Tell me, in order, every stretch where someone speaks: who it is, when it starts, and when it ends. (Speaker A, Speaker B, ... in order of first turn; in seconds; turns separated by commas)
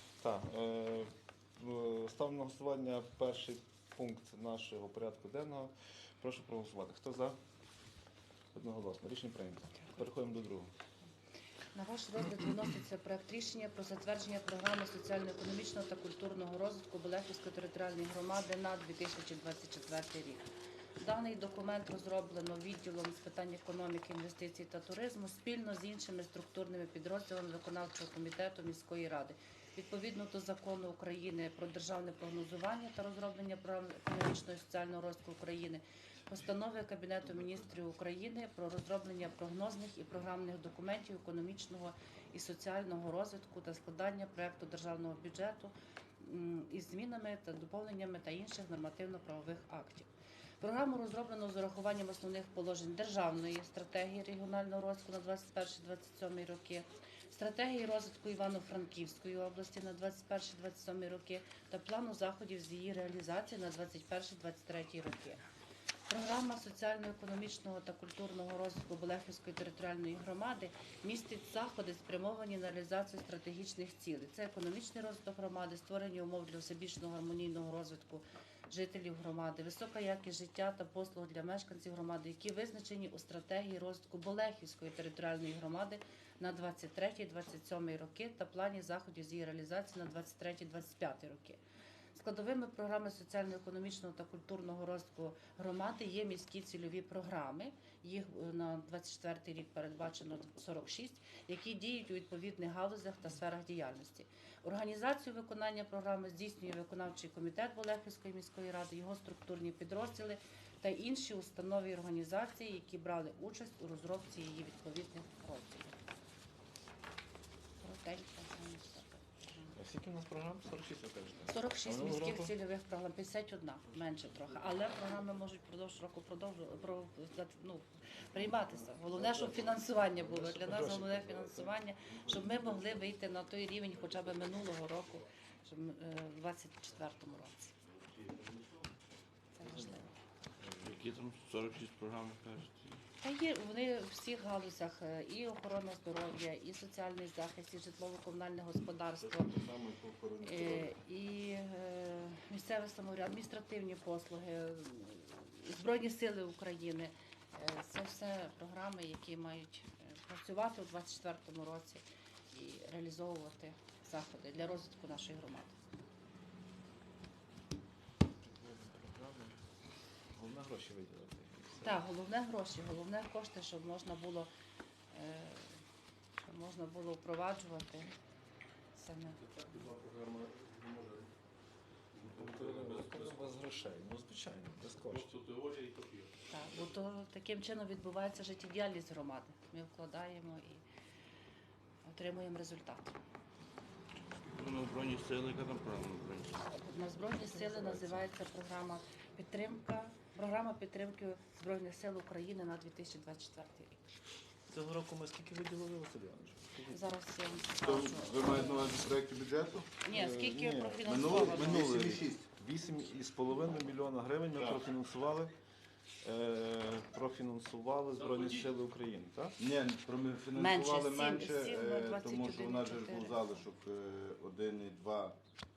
Speaker A: 0.2-7.4, Speaker A: 8.5-10.7, Speaker B: 11.7-20.5, Speaker B: 21.0-50.1, Speaker B: 50.6-65.4, Speaker B: 66.1-91.6, Speaker B: 92.2-116.0, Speaker B: 117.8-119.8, Speaker A: 119.7-122.5, Speaker B: 121.5-137.7, Speaker A: 129.1-131.7, Speaker B: 139.6-140.1, Speaker A: 139.6-141.0, Speaker C: 140.8-143.0, Speaker B: 143.2-149.6, Speaker D: 149.2-150.9, Speaker B: 150.4-165.8, Speaker A: 168.4-169.7, Speaker A: 170.3-172.0, Speaker B: 171.8-174.5, Speaker B: 175.1-175.8, Speaker B: 176.4-178.1, Speaker B: 178.9-179.4, Speaker E: 179.4-181.3, Speaker E: 182.1-183.6, Speaker A: 182.2-185.3, Speaker E: 185.1-186.8, Speaker B: 186.5-190.8, Speaker B: 192.1-193.2, Speaker C: 194.5-196.7, Speaker B: 196.7-204.0, Speaker A: 197.7-198.2, Speaker A: 204.7-207.2, Speaker B: 206.9-208.9, Speaker D: 207.8-209.9, Speaker B: 210.0-212.1, Speaker A: 210.1-215.5, Speaker D: 211.0-212.5, Speaker A: 216.2-219.6, Speaker E: 218.2-218.7, Speaker D: 219.6-225.4, Speaker B: 220.6-223.6